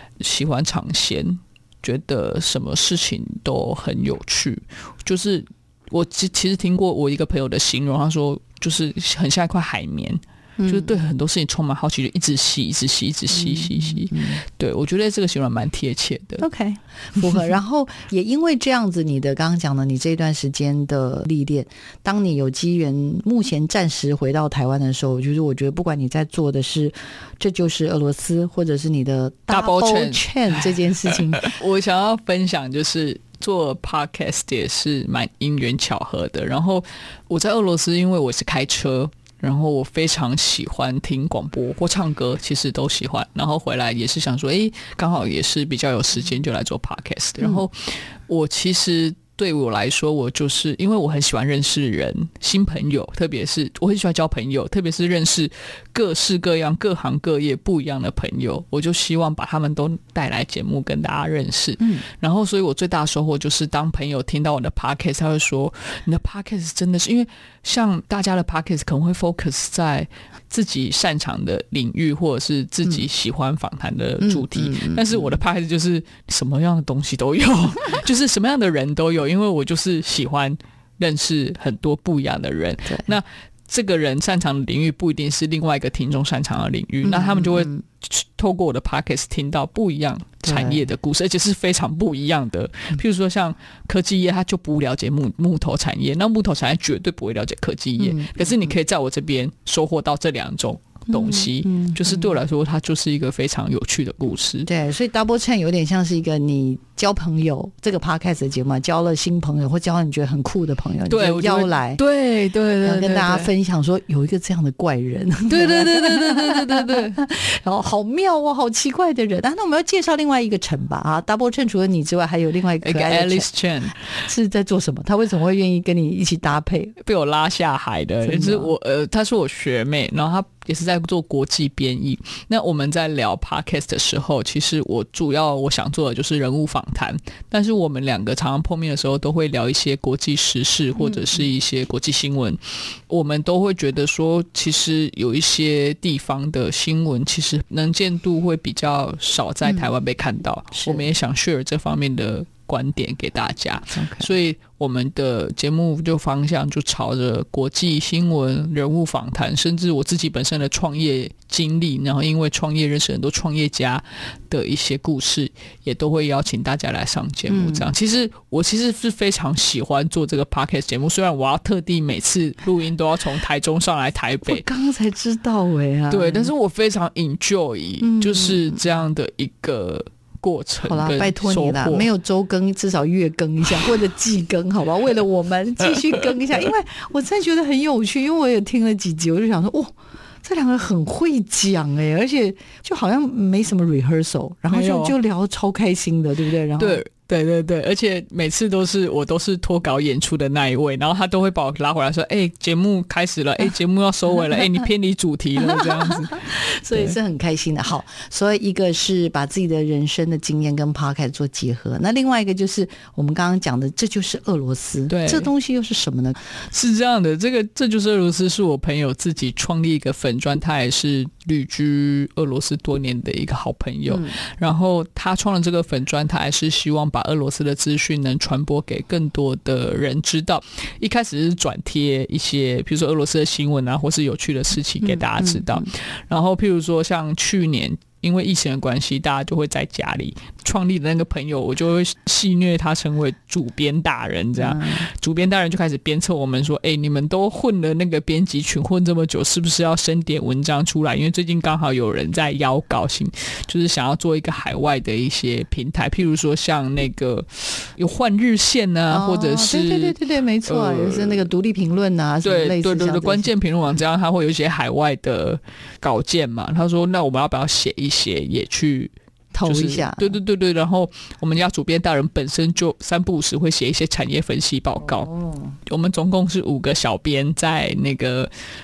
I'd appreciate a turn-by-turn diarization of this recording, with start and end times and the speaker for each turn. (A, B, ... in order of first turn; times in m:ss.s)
0:00.2-0:16.4 A
0:10.6-0:10.9 B
0:13.3-0:14.4 B
0:16.4-0:31.5 B
0:29.5-1:44.7 A
1:01.8-1:02.0 B
1:14.2-1:15.3 B
1:27.0-1:27.8 B
1:30.4-1:30.8 B
1:38.0-1:38.7 B
1:41.1-1:42.4 B
1:44.6-1:52.0 B
1:51.1-1:53.5 A
1:52.8-2:07.0 B
1:55.5-1:57.2 A
2:02.8-2:04.0 A
2:07.0-2:54.6 A
2:08.2-2:08.7 B
2:21.0-2:21.4 B
2:29.6-2:29.9 B
2:30.8-2:31.0 B
2:33.9-2:34.3 B
2:47.5-2:47.9 B
2:54.4-2:56.5 B
2:56.1-3:02.1 A
2:58.0-2:58.8 B
3:00.8-3:17.0 B
3:14.7-3:15.1 A
3:16.8-3:27.1 A
3:25.6-3:36.4 B
3:35.1-3:35.5 A
3:36.7-4:21.5 A
3:44.1-3:44.4 B
3:55.0-3:55.9 B
4:04.6-4:05.0 B
4:19.1-4:23.5 B
4:22.4-4:35.3 A
4:29.5-4:30.4 B
4:35.0-4:35.7 B
4:35.8-4:38.5 A